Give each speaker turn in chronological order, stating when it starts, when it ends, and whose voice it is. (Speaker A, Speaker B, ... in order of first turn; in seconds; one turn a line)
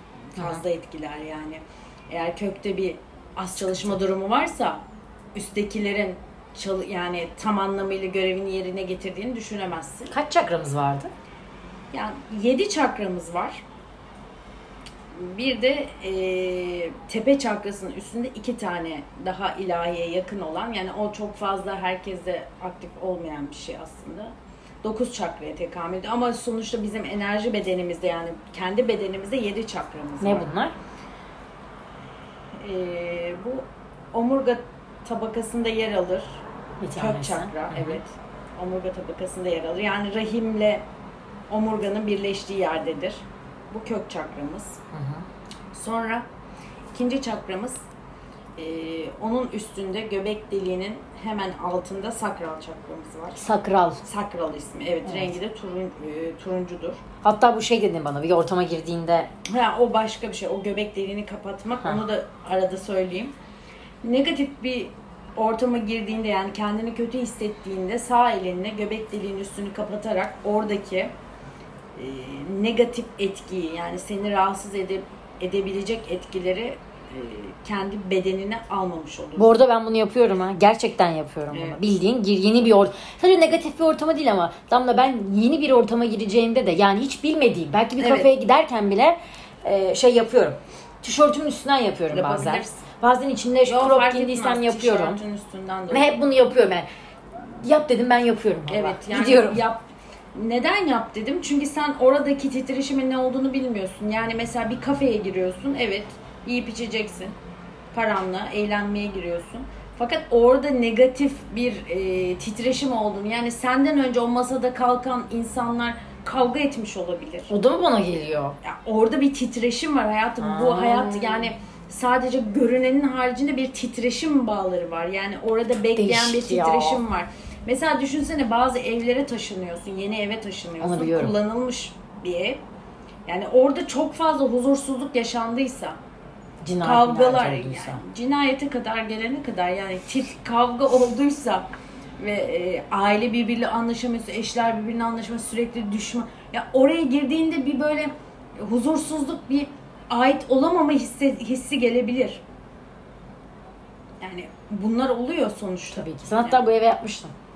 Speaker A: 0.4-4.8
Speaker A: 5.3-10.1
Speaker B: 10.1-11.1
Speaker A: 11.9-13.6
Speaker A: 15.1-30.5
Speaker B: 30.2-30.8
Speaker A: 32.6-36.4
Speaker B: 36.8-38.0
Speaker A: 37.0-40.9
Speaker A: 41.5-44.8
Speaker B: 44.9-45.3
Speaker A: 45.7-46.3
Speaker A: 46.9-47.8
Speaker A: 48.6-53.4
Speaker B: 53.4-54.0
Speaker A: 54.0-57.0
Speaker B: 55.0-55.3
Speaker B: 57.2-59.3
Speaker A: 59.5-63.4
Speaker A: 64.0-71.1
Speaker A: 72.0-79.5
Speaker B: 79.4-95.2
Speaker A: 81.5-81.8
Speaker A: 88.0-88.3
Speaker A: 92.1-92.8
Speaker A: 93.7-96.1
Speaker B: 95.9-99.6
Speaker A: 98.7-107.4
Speaker A: 107.9-117.5
Speaker B: 117.5-118.6
Speaker A: 118.6-132.6
Speaker B: 120.4-121.5
Speaker B: 126.0-127.0
Speaker B: 130.8-131.3
Speaker A: 133.3-136.0
Speaker B: 136.6-138.0
Speaker A: 136.8-141.7
Speaker A: 142.2-152.4
Speaker A: 154.2-156.6
Speaker B: 155.9-157.3